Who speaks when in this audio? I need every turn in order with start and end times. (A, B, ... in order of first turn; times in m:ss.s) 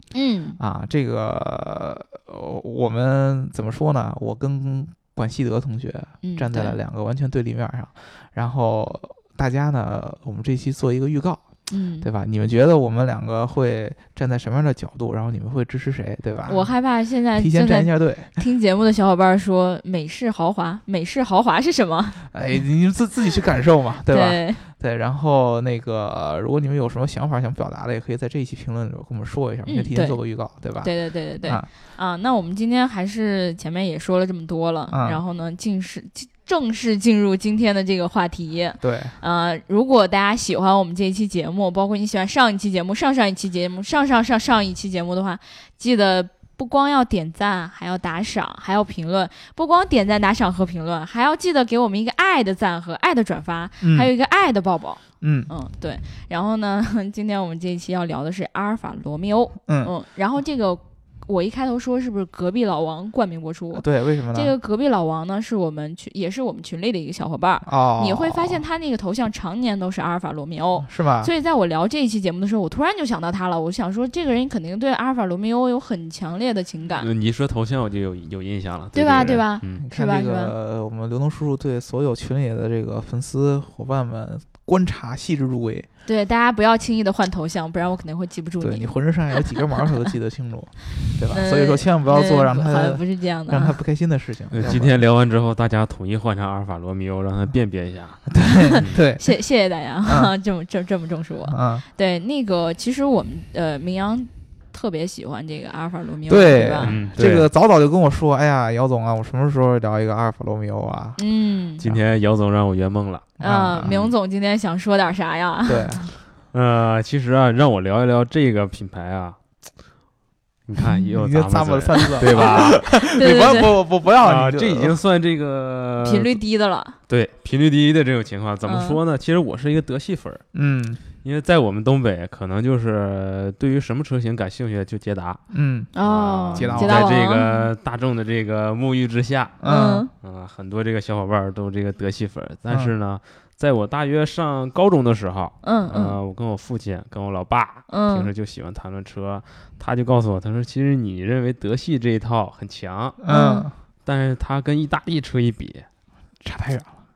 0:00.1-0:00.6 A
0:00.6-0:11.4 B
0:06.2-0:06.8 A
0:11.7-0:12.1 A
0:12.0-0:16.7 B
0:16.5-0:22.2 A
0:17.4-0:18.3 B
0:22.3-0:30.9 B
0:24.1-0:24.6 A
0:29.7-0:30.2 A
0:30.8-1:17.1 A
0:34.9-0:35.2 B
0:38.8-0:39.2 B
0:53.8-0:54.1 B
0:55.2-0:55.5 B
0:59.7-0:59.9 B
1:03.7-1:04.5 B
1:07.6-1:08.6 B
1:10.8-1:11.3 B
1:17.0-1:19.8 C
1:18.9-1:20.5 A
1:19.2-1:25.9 B
1:26.0-1:29.9 A
1:28.6-1:35.0 B
1:31.3-1:33.8 A
1:34.5-1:38.2 C
1:38.3-1:39.3 B
1:38.6-1:46.9 A
1:40.0-1:40.3 B
1:41.5-1:41.8 B
1:46.3-1:51.2 B
1:46.8-1:47.5 C
1:51.2-1:51.8 A
1:51.8-1:54.1 C
1:53.4-1:53.9 B
1:53.4-1:56.1 A
1:55.7-1:56.1 B
1:56.5-1:59.4 C
2:00.7-2:02.8 C
2:01.0-2:05.0 B
2:02.3-2:03.7 A
2:04.2-2:06.4 C
2:06.0-2:07.0 A
2:07.1-2:10.4 C
2:08.6-2:09.0 A
2:10.5-2:11.0 B
2:11.2-2:15.4 C
2:15.5-2:15.9 B
2:15.9-2:17.7 A
2:16.0-2:19.6 C
2:16.5-2:17.1 B
2:19.6-2:20.1 B
2:19.6-2:20.1 A
2:20.2-2:33.2 C
2:22.7-2:22.9 B
2:25.6-2:26.2 A
2:27.9-2:28.3 A
2:33.2-2:33.7 B
2:33.3-2:33.7 A
2:34.0-2:35.8 C
2:36.4-2:36.9 B